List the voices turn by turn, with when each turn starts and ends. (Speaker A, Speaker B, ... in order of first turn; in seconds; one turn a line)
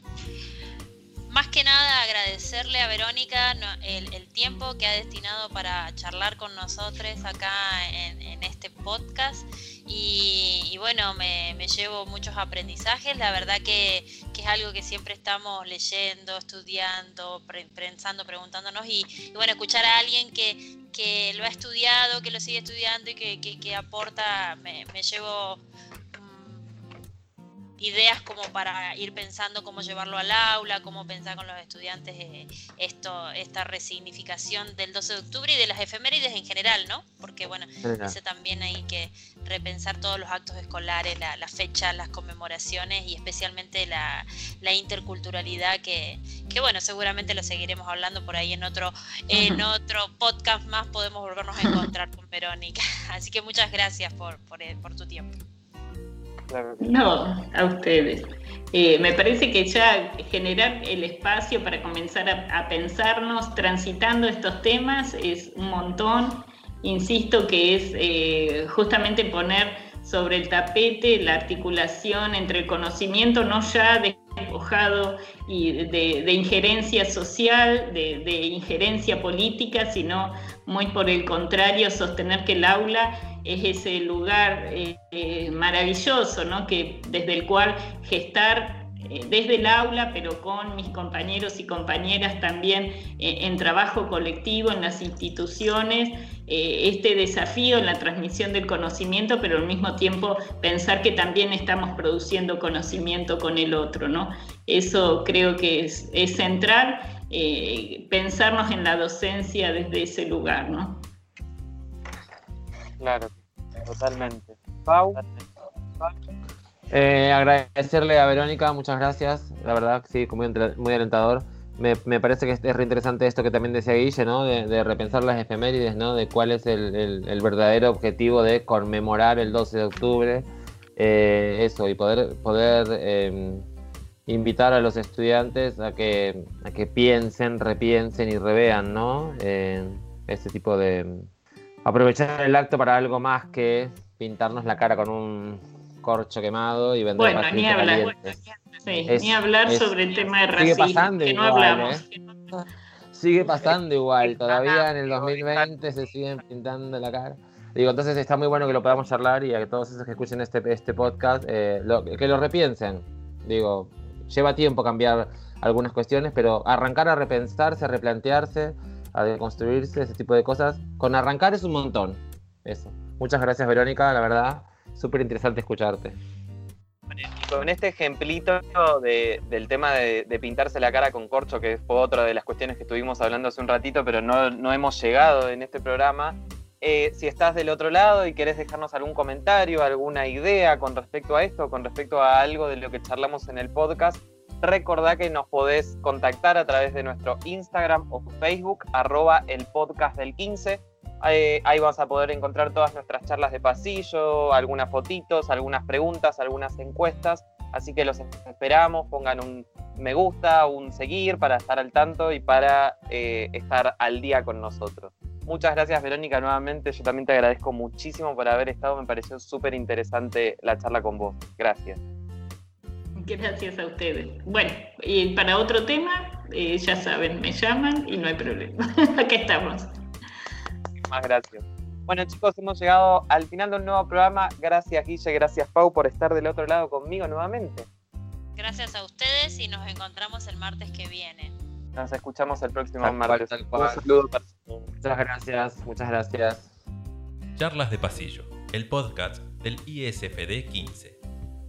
Speaker A: 1.3-25.6
Speaker A: 26.1-26.6
Speaker A: 27.8-55.4
Speaker B: 37.8-38.2
Speaker C: 49.3-49.6
Speaker D: 56.5-56.9
Speaker C: 56.8-111.0
Speaker D: 113.0-115.4
Speaker B: 116.9-133.7
Speaker B: 134.3-141.3
Speaker B: 141.8-148.3
Speaker C: 147.2-152.1
Speaker B: 149.1-149.9
Speaker B: 150.6-176.2
Speaker D: 154.4-155.7
Speaker D: 177.1-222.0
Speaker C: 223.2-229.9
Speaker D: 231.0-237.9
Speaker A: 238.6-241.6
Speaker D: 242.0-244.9
Speaker B: 243.0-244.0
Speaker B: 245.0-246.7
Speaker E: 247.6-251.2